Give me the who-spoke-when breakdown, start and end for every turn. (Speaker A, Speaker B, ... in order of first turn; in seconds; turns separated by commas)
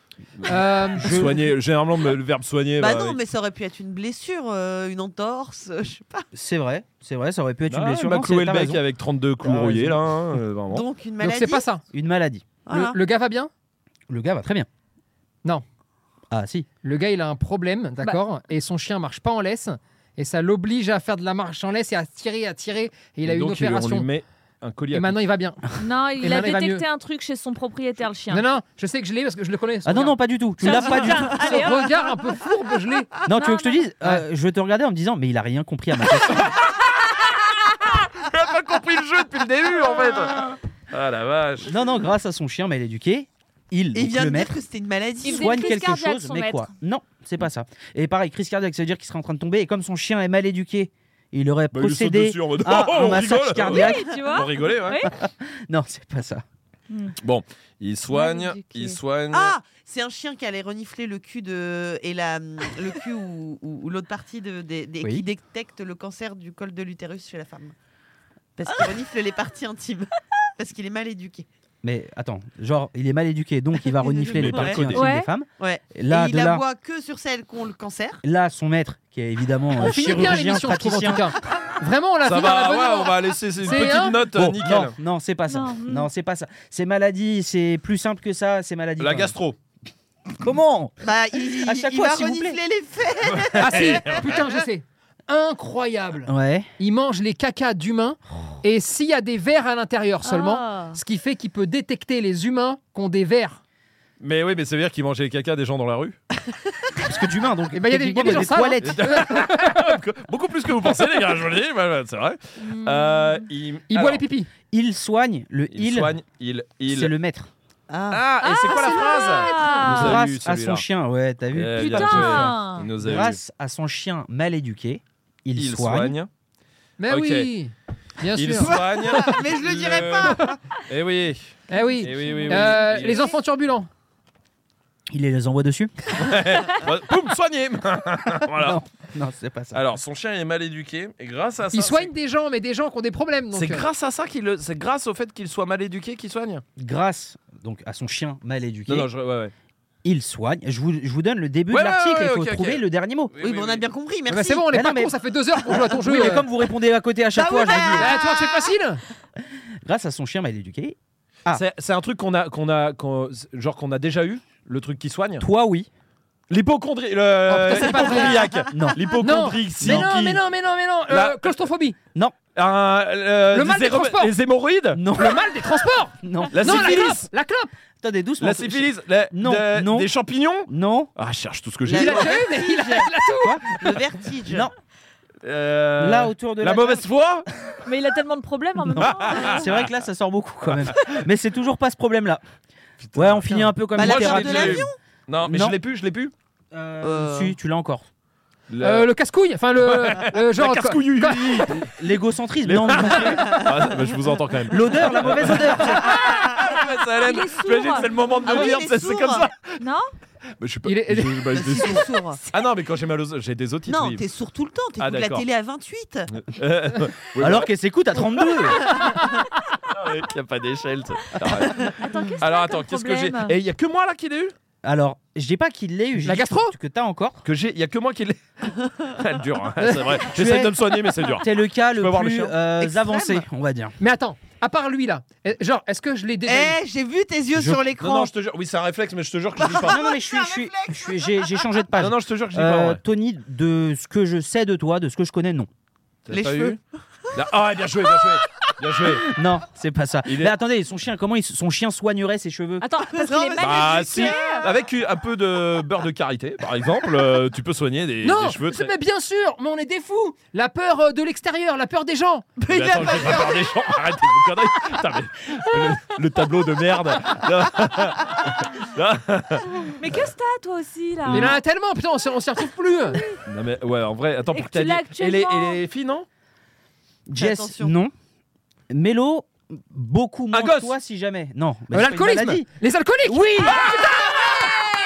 Speaker A: 0.4-3.2, Speaker B: 0.4-1.2, Speaker C: 1.0-1.5, Speaker D: 2.8-6.2, Speaker C: 6.3-8.8, Speaker A: 7.7-10.8, Speaker C: 9.4-10.4, Speaker D: 10.7-11.6, Speaker B: 11.2-11.8, Speaker C: 11.9-12.4, Speaker D: 12.7-13.0, Speaker B: 12.7-13.5, Speaker C: 14.1-14.7, Speaker C: 16.3-16.7, Speaker B: 16.8-24.1, Speaker A: 23.2-25.2, Speaker B: 24.9-25.6, Speaker E: 25.8-28.4, Speaker B: 26.2-26.8, Speaker B: 28.3-33.1, Speaker C: 29.8-31.6, Speaker E: 30.6-31.9, Speaker C: 33.2-36.5, Speaker E: 33.3-33.8, Speaker A: 38.1-41.7, Speaker C: 41.6-44.6, Speaker D: 43.9-45.6, Speaker E: 45.2-46.7, Speaker C: 45.2-54.2, Speaker A: 51.7-55.1, Speaker E: 53.6-55.1, Speaker C: 55.0-56.4, Speaker E: 56.9-57.1, Speaker A: 57.2-59.5, Speaker E: 58.1-59.0, Speaker D: 59.3-67.7, Speaker D: 68.6-71.5, Speaker C: 71.8-76.6, Speaker D: 73.9-74.9, Speaker A: 74.3-75.1, Speaker E: 74.9-75.3, Speaker D: 75.6-78.2, Speaker C: 78.2-81.3, Speaker B: 79.8-84.2, Speaker A: 82.2-84.9, Speaker C: 84.3-89.3, Speaker E: 85.5-86.1, Speaker A: 89.0-89.6, Speaker C: 90.4-92.6, Speaker D: 91.0-94.4, Speaker A: 93.4-94.2, Speaker B: 93.6-103.6, Speaker C: 96.3-96.7, Speaker E: 100.2-101.0, Speaker A: 104.2-106.2, Speaker C: 107.0-109.1, Speaker B: 107.7-109.9, Speaker A: 108.8-114.2, Speaker E: 112.6-113.4, Speaker B: 113.9-114.5, Speaker C: 114.7-116.1, Speaker A: 115.7-117.1, Speaker C: 116.9-117.5, Speaker D: 117.9-118.2, Speaker A: 118.1-120.8, Speaker E: 118.4-120.2, Speaker B: 119.1-119.7, Speaker C: 119.8-126.2, Speaker A: 121.5-123.4, Speaker E: 121.8-122.9, Speaker A: 125.5-126.3, Speaker B: 127.0-128.8, Speaker A: 127.1-127.5, Speaker A: 128.3-133.3, Speaker D: 128.6-130.6, Speaker B: 131.7-133.9, Speaker E: 132.2-132.6, Speaker C: 135.1-135.9, Speaker A: 136.1-138.8, Speaker C: 138.5-139.8, Speaker A: 139.7-142.1, Speaker B: 141.7-143.9, Speaker A: 143.5-146.6, Speaker C: 146.8-149.1, Speaker A: 148.9-149.5, Speaker C: 150.0-153.3, Speaker A: 151.7-152.8, Speaker A: 153.3-153.8, Speaker D: 153.4-154.7, Speaker B: 154.3-156.5, Speaker C: 154.7-155.1, Speaker C: 155.9-158.1, Speaker D: 157.3-158.7, Speaker B: 157.9-159.0, Speaker C: 159.8-161.6, Speaker A: 161.5-165.4, Speaker C: 165.4-165.9, Speaker A: 166.5-170.4, Speaker B: 167.4-168.5, Speaker D: 168.0-168.4, Speaker C: 168.7-169.1, Speaker B: 169.2-172.0, Speaker C: 169.8-170.1, Speaker A: 171.1-171.5, Speaker A: 172.5-175.0, Speaker B: 173.5-174.3, Speaker C: 174.9-175.6, Speaker B: 175.1-177.7, Speaker C: 176.2-177.1, Speaker A: 176.5-177.3, Speaker C: 178.0-180.1, Speaker A: 178.4-182.4, Speaker C: 180.7-181.1, Speaker D: 181.8-183.1, Speaker B: 181.9-183.9, Speaker C: 183.4-183.7, Speaker D: 183.7-184.7, Speaker C: 184.5-184.7, Speaker A: 185.4-187.5, Speaker C: 186.0-187.1, Speaker E: 187.8-189.7, Speaker C: 188.9-192.4, Speaker A: 189.0-189.8, Speaker A: 190.8-191.2, Speaker A: 193.0-196.3, Speaker C: 193.1-194.8, Speaker D: 194.0-195.0, Speaker C: 195.4-195.8, Speaker C: 196.7-198.1, Speaker D: 197.0-197.5, Speaker A: 198.7-199.1, Speaker B: 198.8-201.7, Speaker A: 199.8-201.9, Speaker C: 201.7-203.6, Speaker A: 202.6-209.8, Speaker D: 203.5-204.1, Speaker C: 204.7-206.2, Speaker D: 206.2-206.6, Speaker E: 207.2-208.1, Speaker D: 208.4-209.5, Speaker E: 209.8-210.1, Speaker A: 210.6-214.2, Speaker B: 210.8-211.6, Speaker D: 211.5-212.4, Speaker D: 213.9-216.3, Speaker A: 215.0-215.4, Speaker A: 216.3-217.7, Speaker C: 217.4-218.9, Speaker A: 219.9-224.5, Speaker E: 222.0-223.5, Speaker C: 224.8-227.4, Speaker B: 226.2-226.7, Speaker A: 227.4-228.4, Speaker A: 229.1-232.6, Speaker B: 229.8-230.3, Speaker C: 230.3-230.7, Speaker C: 231.3-233.9, Speaker D: 232.8-233.4, Speaker B: 234.0-236.8, Speaker D: 236.4-238.3, Speaker C: 237.5-237.8, Speaker A: 238.0-240.0, Speaker D: 239.6-241.7, Speaker C: 239.7-245.7, Speaker A: 242.0-243.0, Speaker A: 246.2-246.8, Speaker D: 246.3-247.3, Speaker A: 247.3-249.3, Speaker D: 248.2-248.7, Speaker C: 249.2-252.9, Speaker A: 250.3-250.5, Speaker E: 252.8-254.7, Speaker D: 253.1-254.7, Speaker A: 253.6-258.9, Speaker B: 258.2-262.5, Speaker D: 262.6-263.7, Speaker A: 262.7-270.2, Speaker E: 269.8-271.6, Speaker A: 271.3-271.6, Speaker B: 271.3-273.2, Speaker A: 273.5-276.2, Speaker E: 274.5-275.8, Speaker C: 277.3-278.1, Speaker D: 277.4-277.9, Speaker C: 278.9-282.6, Speaker A: 280.5-280.9, Speaker B: 281.9-284.6, Speaker A: 283.7-284.2